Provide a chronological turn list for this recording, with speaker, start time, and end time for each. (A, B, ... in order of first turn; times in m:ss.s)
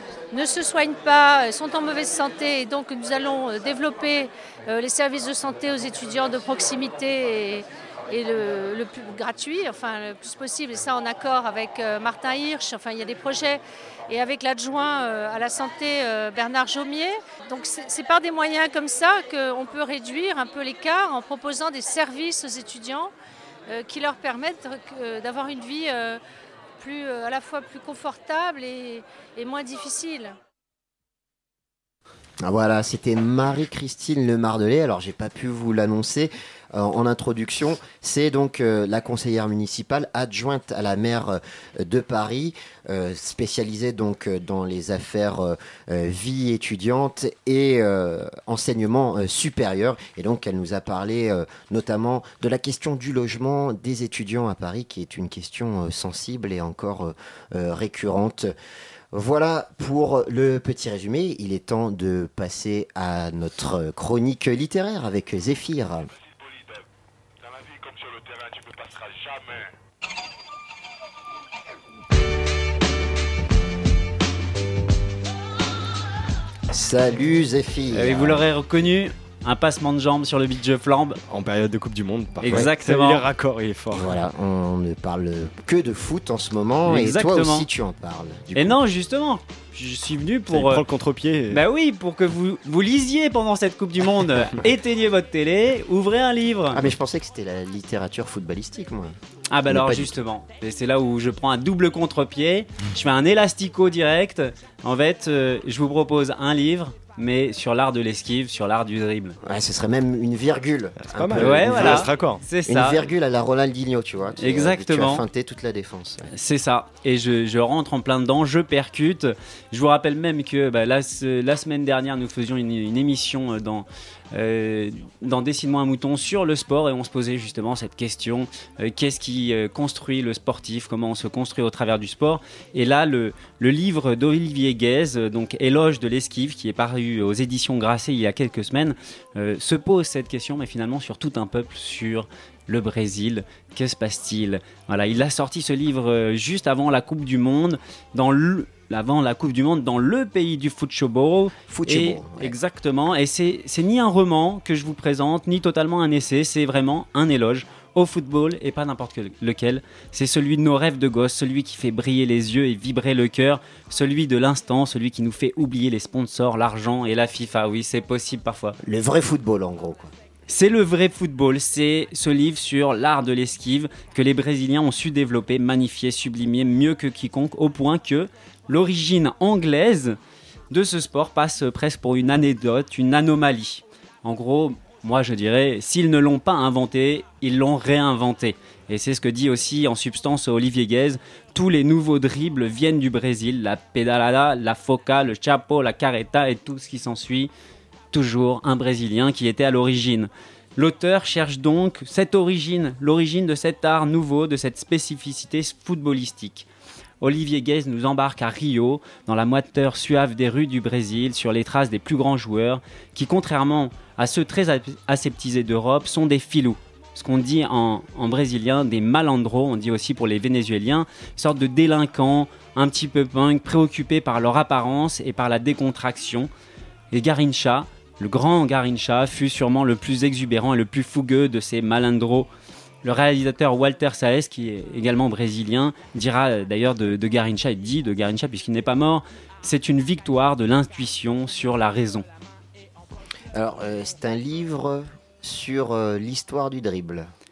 0:00.3-0:23.1 A
0:23.7-0:26.2 A
0:26.8-0:30.3 A
0:32.4-0:58.5 B
0:59.1-1:06.1 B
1:16.7-1:18.4 B
1:17.9-1:21.2 C
1:21.3-1:24.1 D
1:22.4-1:23.3 C
1:23.9-1:28.8 B
1:26.8-1:27.7 C
1:28.5-1:30.8 C
1:30.5-1:31.6 D
1:31.5-1:36.8 C
1:36.7-1:39.2 B
1:39.5-1:49.4 C
1:39.7-1:40.1 B
1:49.4-1:52.1 B
1:51.0-1:52.4 D
1:51.3-1:53.0 C
1:52.6-1:56.3 B
1:54.4-1:55.2 C
1:56.3-2:48.8 C
2:31.7-2:32.5 B
2:48.8-2:50.1 B
2:50.5-3:00.2 C
3:00.7-3:17.5 C
3:18.1-3:26.7 C
3:27.2-3:46.5 C
3:47.1-3:52.5 C
3:53.0-4:02.2 C
4:03.5-4:07.3 B